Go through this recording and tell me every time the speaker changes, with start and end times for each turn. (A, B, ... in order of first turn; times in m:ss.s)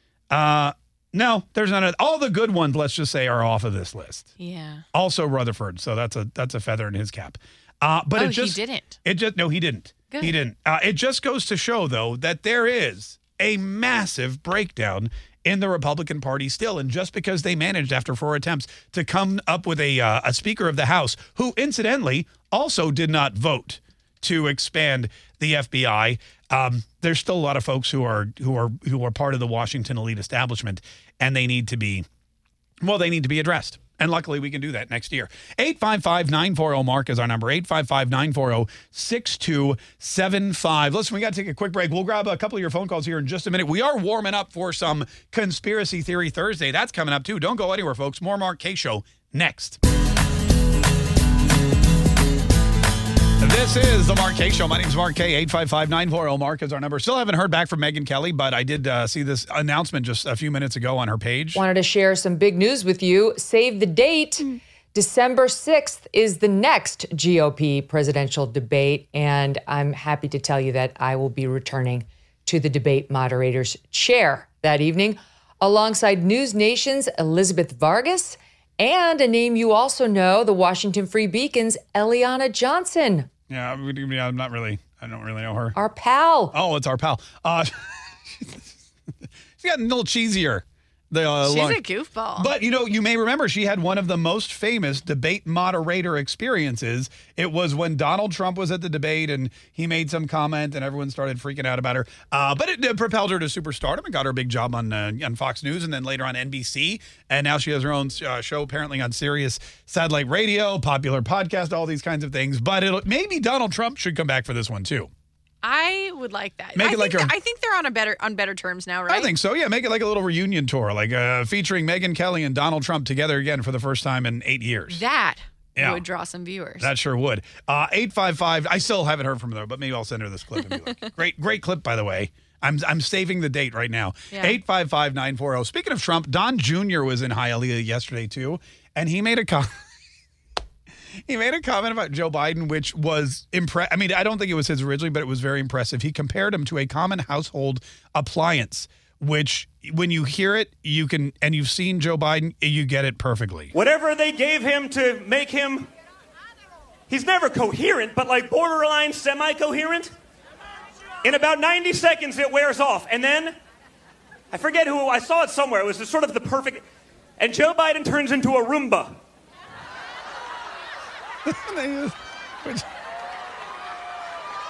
0:00.3-0:04.3 A
0:04.4-0:04.8 B
0:04.9-0:32.0 A
0:08.2-0:09.0 B
0:32.8-0:49.8 A
0:53.4-1:01.6 A
1:01.6-1:23.3 C
1:23.5-1:25.8 A
1:25.8-1:26.5 C
1:26.5-1:28.7 A
1:29.6-1:31.8 A
1:31.4-1:32.5 B
1:32.4-1:55.1 A
1:55.6-1:59.3 B
1:56.8-1:57.3 A
1:59.1-2:05.0 A
2:04.9-2:06.9 B
2:05.8-2:06.0 A
2:06.8-2:19.7 A
2:14.3-2:14.6 B
2:21.3-2:33.7 A
2:33.7-2:35.9 D
2:37.1-2:40.1 D
2:41.2-2:43.6 D
2:44.5-2:46.8 D
2:47.4-2:49.2 D
2:51.5-2:52.8 A